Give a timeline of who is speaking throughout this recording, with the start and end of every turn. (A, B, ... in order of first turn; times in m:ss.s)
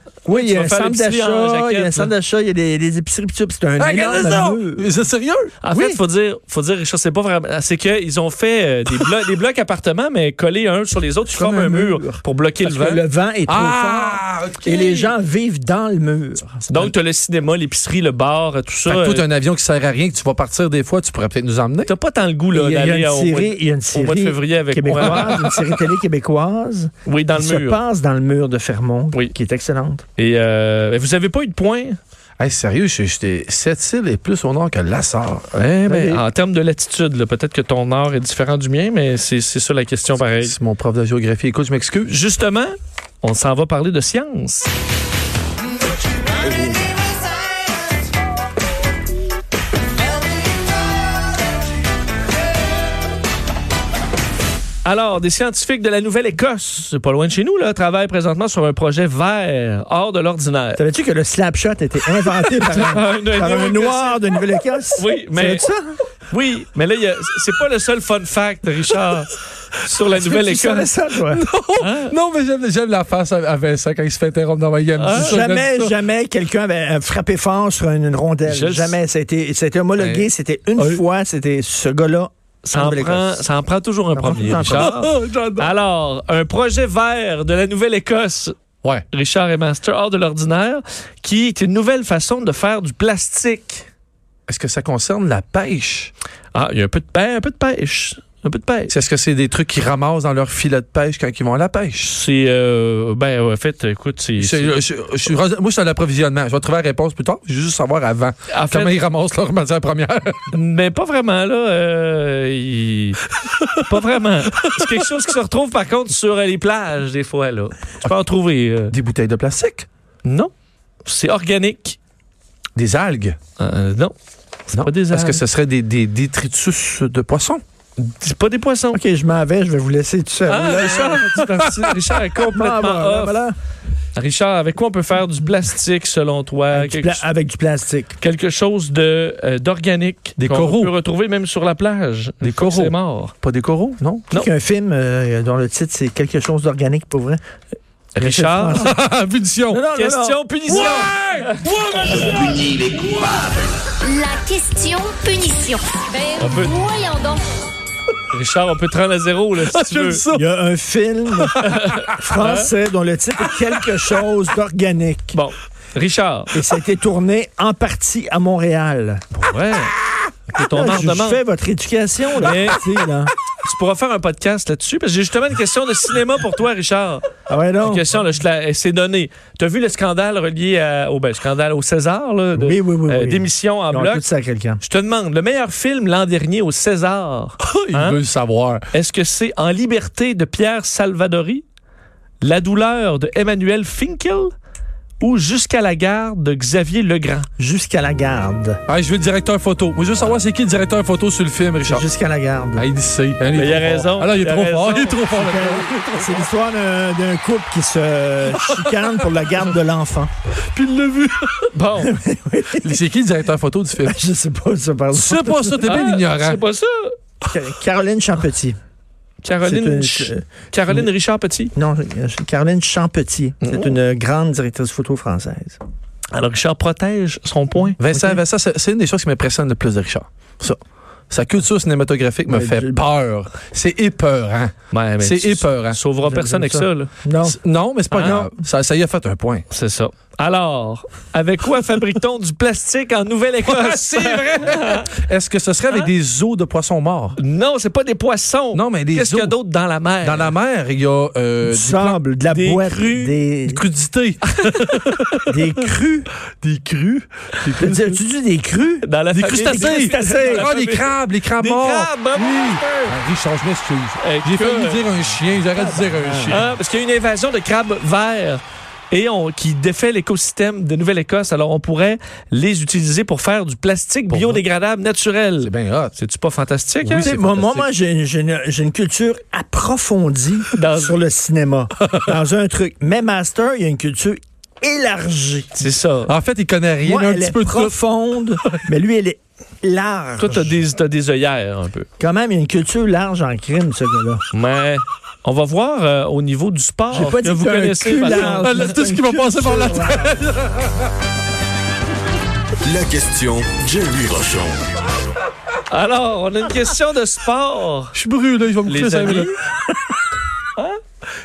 0:00.3-0:04.9 A
0:00.3-0:02.1 B
0:03.8-0:05.6 C
0:05.6-0:13.0 B
0:05.7-0:06.0 A
0:11.3-0:16.9 A
0:13.5-0:15.2 C
0:16.7-0:19.2 B
0:18.9-0:21.9 C
0:21.9-0:25.4 B
0:22.5-0:30.0 A
0:24.9-0:25.6 C
0:27.1-0:27.8 B
0:30.2-0:32.0 B
0:32.4-0:35.6 C
0:35.6-0:40.6 B
0:35.9-0:36.2 A
0:40.1-0:42.2 C
0:42.1-0:44.7 B
0:54.8-1:00.8 B
1:00.8-1:06.0 A
1:02.6-1:04.4 B
1:05.0-1:05.7 B
1:06.3-1:10.9 B
1:10.1-1:11.4 A
1:11.3-1:16.0 C
1:11.8-1:12.1 B
1:15.0-1:15.4 B
1:15.1-1:23.5 A
1:18.5-1:19.0 B
1:20.0-1:21.0 C
1:22.6-1:28.6 B
1:24.2-1:25.0 A
1:24.5-1:25.7 C
1:29.1-1:33.9 B
1:34.5-1:36.1 C
1:36.5-1:39.0 B
1:38.9-1:42.1 C
1:42.0-1:44.8 B
1:44.4-1:50.6 C
1:48.5-1:49.0 B
1:50.5-1:53.2 B
1:53.7-1:58.9 B
1:58.9-1:59.9 C
2:00.2-2:00.5 B
2:01.0-2:02.0 B
2:02.8-2:03.4 C
2:03.6-2:04.2 B
2:04.7-2:07.6 C
2:04.7-2:05.4 B
2:08.0-2:09.0 B
2:08.9-2:11.3 A
2:10.5-2:13.4 B
2:12.4-2:13.6 A
2:14.2-2:17.3 B
2:16.7-2:18.2 A
2:18.2-2:23.3 B
2:20.4-2:20.9 C
2:22.4-2:24.3 C
2:24.3-2:27.4 A
2:28.2-2:28.9 B
2:28.2-2:29.0 A
2:28.8-2:29.8 C
2:29.7-2:30.4 A
2:29.9-2:32.3 B
2:30.7-2:32.5 C
2:32.2-2:33.6 D
2:34.1-2:37.4 E
2:36.4-2:36.9 B
2:38.3-2:40.2 B
2:39.6-2:40.5 C
2:40.3-2:41.6 A
2:41.3-2:41.9 C
2:41.6-2:42.7 B
2:42.2-2:45.4 A
2:43.6-2:44.1 C
2:45.3-2:46.6 B
2:46.5-2:49.2 A
2:49.3-2:50.0 B
2:50.5-2:51.4 B
2:50.6-2:53.3 A
2:52.4-2:52.8 B
2:53.6-2:57.2 B
2:57.5-2:58.0 A
2:57.8-3:04.2 B
3:02.6-3:04.8 A
3:04.8-3:08.2 B
3:07.6-3:08.8 C
3:08.9-3:11.6 B
3:12.4-3:14.5 B
3:15.2-3:17.5 B
3:17.6-3:18.8 A
3:18.9-3:22.1 C
3:21.9-3:22.8 A
3:22.8-3:26.5 C
3:23.5-3:25.2 B
3:25.3-3:30.3 A
3:28.5-3:29.4 C
3:30.7-3:31.7 C
3:31.7-3:32.1 B
3:32.0-3:33.0 A
3:32.8-3:34.2 C
3:34.0-3:36.0 A
3:35.1-3:36.6 C
3:35.8-3:37.2 B
3:37.5-3:38.8 A
3:39.4-3:41.7 B
3:39.6-3:41.0 A
3:41.8-3:45.8 A
3:43.6-3:44.0 B
3:46.3-3:48.0 B
3:48.0-3:50.8 C
3:48.1-3:48.4 A
3:51.3-3:56.0 C
3:52.5-3:53.0 A
3:54.9-3:57.1 B
3:56.2-3:57.6 A
3:57.4-3:59.6 C
3:58.1-3:58.5 B
3:59.7-4:05.1 B
4:03.6-4:07.4 C
4:07.4-4:10.6 B
4:08.7-4:09.6 C
4:10.2-4:12.2 C
4:11.6-4:13.8 A
4:12.5-4:13.4 B
4:13.7-4:15.3 C
4:14.6-4:15.5 B
4:15.5-4:16.3 A
4:16.6-4:18.2 C
4:17.8-4:20.7 A
4:19.0-4:23.2 B
4:19.4-4:26.7 C
4:24.2-4:25.0 B
4:25.7-4:26.6 A
4:26.5-4:37.3 B
4:34.3-4:34.6 C
4:35.6-4:36.2 C
4:37.0-4:37.9 C
4:37.1-4:45.8 A
4:40.7-4:41.2 B
4:45.8-4:46.3 B
4:46.3-4:48.0 C
4:47.0-4:50.8 A
4:50.4-4:52.1 B
4:52.2-4:54.4 A
4:54.5-4:58.9 B
4:57.1-5:00.3 A
4:58.0-5:01.1 C
5:02.9-5:04.9 D
5:05.9-5:08.2 B
5:08.1-5:09.5 C
5:08.9-5:09.5 B